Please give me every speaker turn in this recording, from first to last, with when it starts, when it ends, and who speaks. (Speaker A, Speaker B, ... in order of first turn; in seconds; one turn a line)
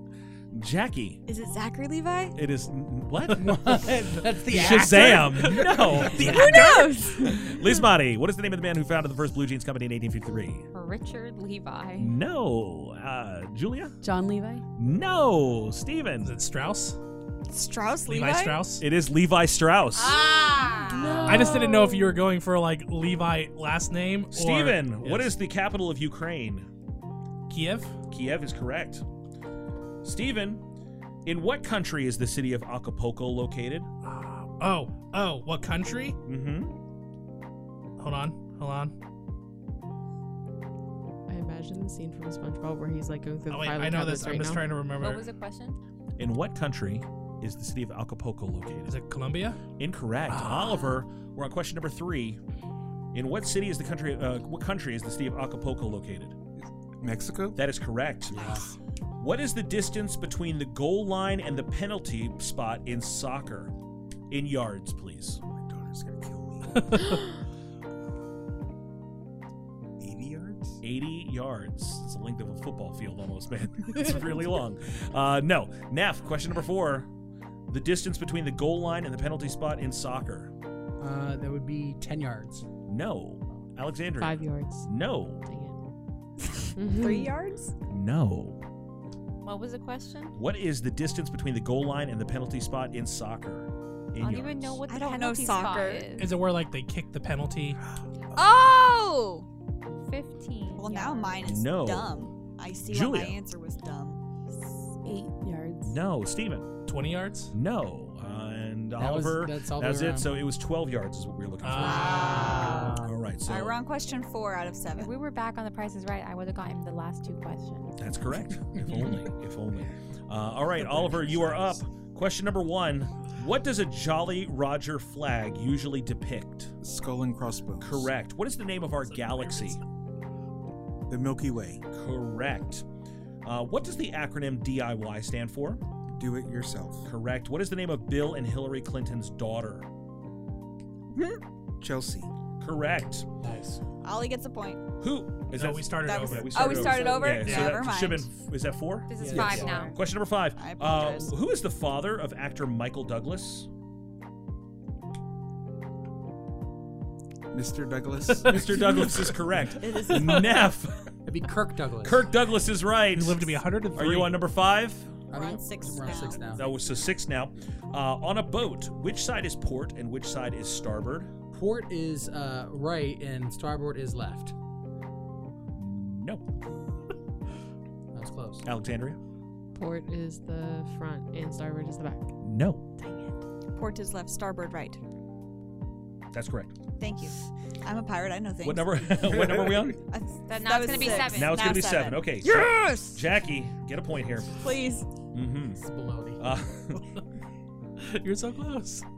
Speaker A: 0.5-1.2
Speaker B: 1.3-2.4
Speaker A: 2.4-3.9
Speaker C: 3.4-6.4
Speaker A: 4.5-10.6
Speaker B: 5.9-7.5
Speaker D: 6.5-7.2
Speaker E: 10.7-12.2
Speaker A: 12.0-13.9
Speaker F: 14.0-14.6
Speaker A: 14.8-16.3
Speaker G: 16.2-17.0
Speaker B: 17.5-18.7
Speaker G: 18.1-18.8
Speaker A: 18.8-20.2
Speaker E: 19.9-21.2
Speaker B: 20.4-21.8
Speaker D: 21.0-22.2
Speaker F: 21.1-21.4
Speaker G: 21.2-25.3
Speaker A: 24.3-26.7
Speaker G: 27.5-27.9
Speaker A: 28.1-29.0
Speaker A: 30.0-30.6
Speaker A: 31.2-33.9
Speaker G: 34.0-36.2
Speaker A: 36.2-36.7
Speaker G: 38.0-38.9
Speaker D: 41.3-44.7
Speaker G: 43.5-45.3
Speaker E: 45.0-45.8
Speaker A: 46.2-49.0
Speaker G: 48.9-49.6
Speaker A: 49.8-52.4
Speaker G: 50.4-50.7
Speaker A: 53.1-56.4
Speaker H: 56.6-57.6
Speaker A: 57.5-58.5
Speaker C: 58.3-58.6
Speaker A: 59.2-63.7
Speaker A: 64.3-65.4
Speaker H: 65.4-67.2
Speaker H: 70.0-70.8
Speaker A: 70.8-77.1
Speaker A: 77.7-80.5
Speaker C: 81.0-82.7
Speaker A: 82.9-85.4
Speaker D: 84.2-84.9
Speaker D: 85.4-85.8
Speaker D: 86.8-87.3
Speaker B: 86.9-87.7
Speaker A: 87.9-88.6
Speaker E: 89.4-90.3
Speaker A: 90.3-94.8
Speaker E: 94.2-96.3
Speaker B: 94.9-96.2
Speaker G: 96.2-97.8
Speaker B: 98.3-99.4
Speaker E: 100.0-101.4
Speaker B: 100.7-104.2
Speaker A: 101.4-102.3
Speaker A: 102.8-103.4
Speaker F: 105.0-105.9
Speaker A: 105.8-106.7
Speaker G: 106.9-107.5
Speaker A: 107.5-113.8
Speaker C: 109.0-110.3
Speaker G: 111.6-112.6
Speaker B: 111.7-115.1
Speaker C: 112.0-113.1
Speaker E: 114.9-118.0
Speaker A: 118.0-126.7
Speaker H: 126.8-128.1
Speaker A: 127.8-129.8
Speaker G: 129.1-129.8
Speaker H: 131.1-131.8
Speaker A: 131.9-132.8
Speaker A: 133.4-135.8
Speaker H: 136.1-137.1
Speaker A: 137.0-139.8
Speaker B: 141.1-141.4
Speaker H: 141.8-142.3
Speaker A: 142.6-143.3
Speaker C: 143.4-143.7
Speaker B: 144.0-144.8
Speaker A: 145.0-153.7
Speaker G: 145.5-147.8
Speaker B: 146.0-148.3
Speaker E: 149.1-149.9
Speaker C: 149.2-149.6
Speaker H: 149.2-149.8
Speaker B: 149.3-149.9
Speaker B: 150.5-151.4
Speaker H: 157.5-159.3
Speaker A: 158.4-161.0
Speaker B: 159.7-160.7
Speaker C: 161.2-162.3
Speaker A: 162.0-165.1
Speaker G: 163.1-164.4
Speaker C: 165.3-166.7
Speaker B: 165.3-166.8
Speaker A: 166.5-171.3
Speaker C: 171.5-174.5
Speaker A: 175.8-176.4
Speaker C: 178.1-178.6
Speaker A: 178.6-179.2
Speaker D: 179.7-182.3
Speaker A: 182.4-182.8
Speaker B: 183.7-185.0
Speaker A: 186.3-186.8
Speaker B: 187.0-189.3
Speaker A: 188.6-190.0
Speaker H: 189.3-189.9
Speaker B: 189.9-193.3
Speaker E: 190.5-191.8
Speaker A: 191.2-194.7
Speaker B: 194.5-195.1
Speaker A: 195.3-195.8
Speaker C: 195.8-196.4
Speaker A: 196.4-197.0
Speaker G: 198.0-199.0